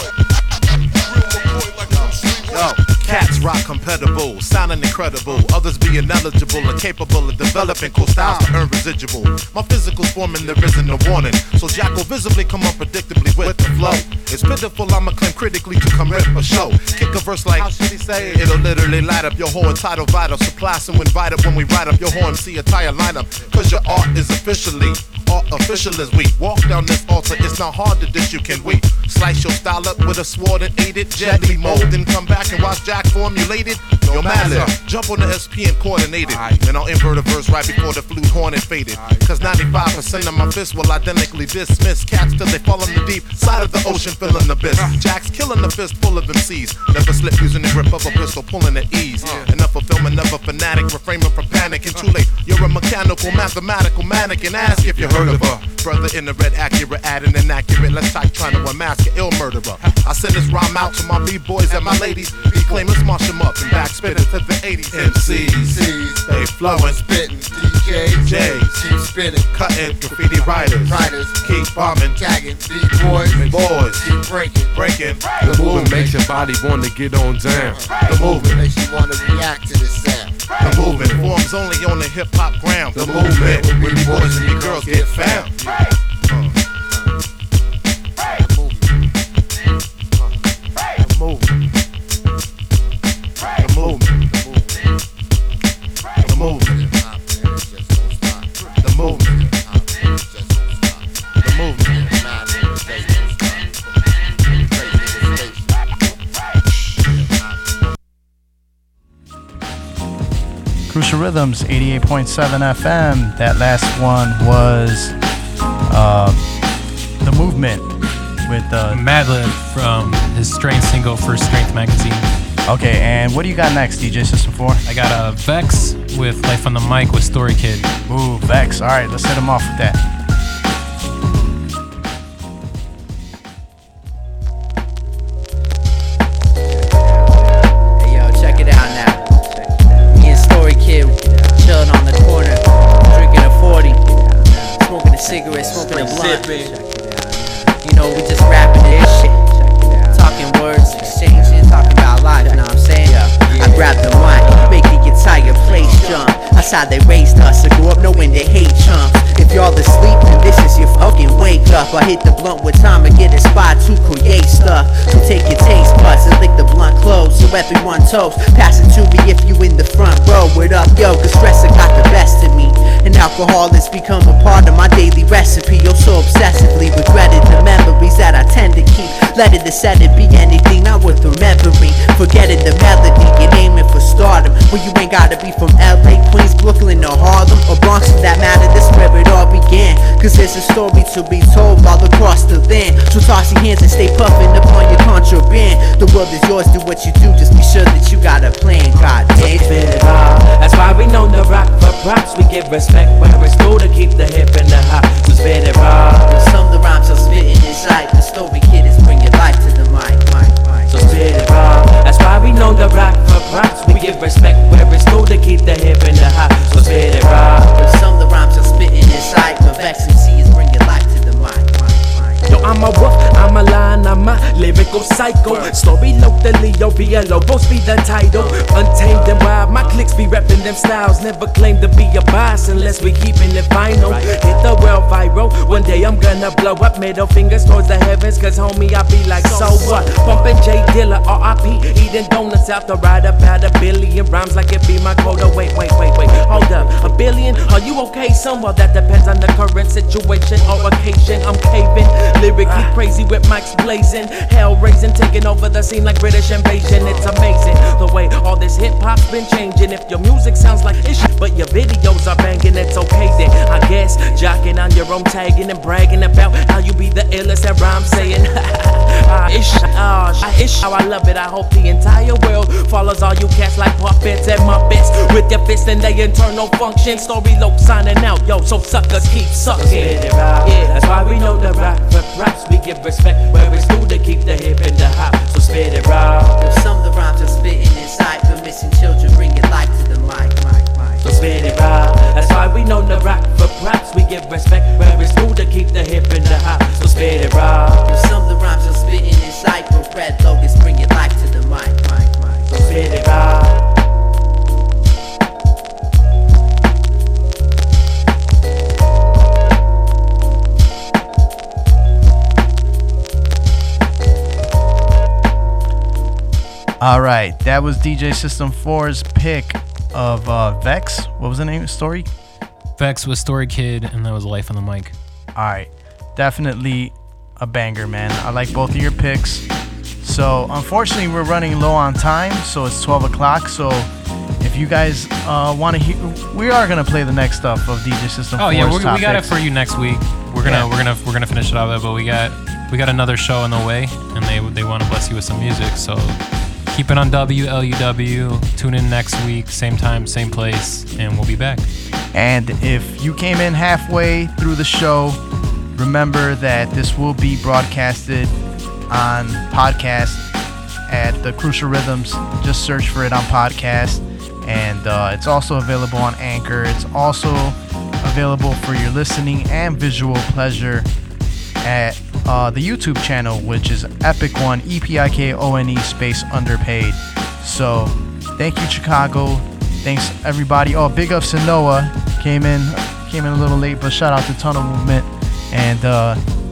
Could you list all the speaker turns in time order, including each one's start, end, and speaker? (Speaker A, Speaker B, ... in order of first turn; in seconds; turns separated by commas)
Speaker A: 1.3-67.2, Speaker B: 1.4-2.6, Speaker B: 7.6-8.6, Speaker C: 49.2-49.5, Speaker C: 54.9-55.6, Speaker B: 61.8-62.9, Speaker B: 65.0-76.5, Speaker A: 68.1-68.8, Speaker A: 69.5-72.2, Speaker A: 73.1-74.1, Speaker A: 74.7-75.9, Speaker C: 75.4-77.9, Speaker B: 77.5-81.3, Speaker A: 78.0-78.6, Speaker A: 80.6-85.7, Speaker B: 83.0-85.6, Speaker B: 88.2-88.9, Speaker A: 91.0-91.5, Speaker B: 93.6-94.8, Speaker A: 93.6-94.1, Speaker B: 96.2-103.8, Speaker A: 96.3-96.8, Speaker A: 98.7-99.5, Speaker A: 101.4-102.0, Speaker B: 104.4-105.8, Speaker B: 106.9-107.5, Speaker D: 110.9-115.1, Speaker D: 115.9-116.4, Speaker D: 117.2-117.8, Speaker D: 118.5-119.0, Speaker E: 118.9-122.3, Speaker D: 122.7-124.8, Speaker E: 124.8-127.9, Speaker D: 128.1-130.0, Speaker F: 136.7-146.8, Speaker F: 147.7-199.9, Speaker A: 155.7-156.1, Speaker B: 155.9-156.2, Speaker G: 199.3-206.3, Speaker F: 206.2-211.2, Speaker G: 210.9-217.8, Speaker F: 212.5-212.8, Speaker F: 213.5-222.4, Speaker G: 222.5-286.6, Speaker F: 228.3-230.0, Speaker F: 232.7-233.2, Speaker F: 233.9-234.7, Speaker F: 239.4-240.1, Speaker F: 279.6-281.3, Speaker F: 286.6-291.2, Speaker G: 291.2-298.1, Speaker F: 297.0-297.4, Speaker F: 298.0-302.9, Speaker G: 302.7-303.9, Speaker D: 317.0-322.3, Speaker E: 323.0-325.1, Speaker D: 325.6-329.6, Speaker D: 330.2-334.1, Speaker D: 334.6-339.5, Speaker E: 338.6-346.4, Speaker D: 340.6-340.9, Speaker E: 346.9-351.9, Speaker D: 352.3-355.4, Speaker D: 355.9-358.5, Speaker D: 359.1-360.4, Speaker D: 361.1-371.1, Speaker D: 371.8-386.4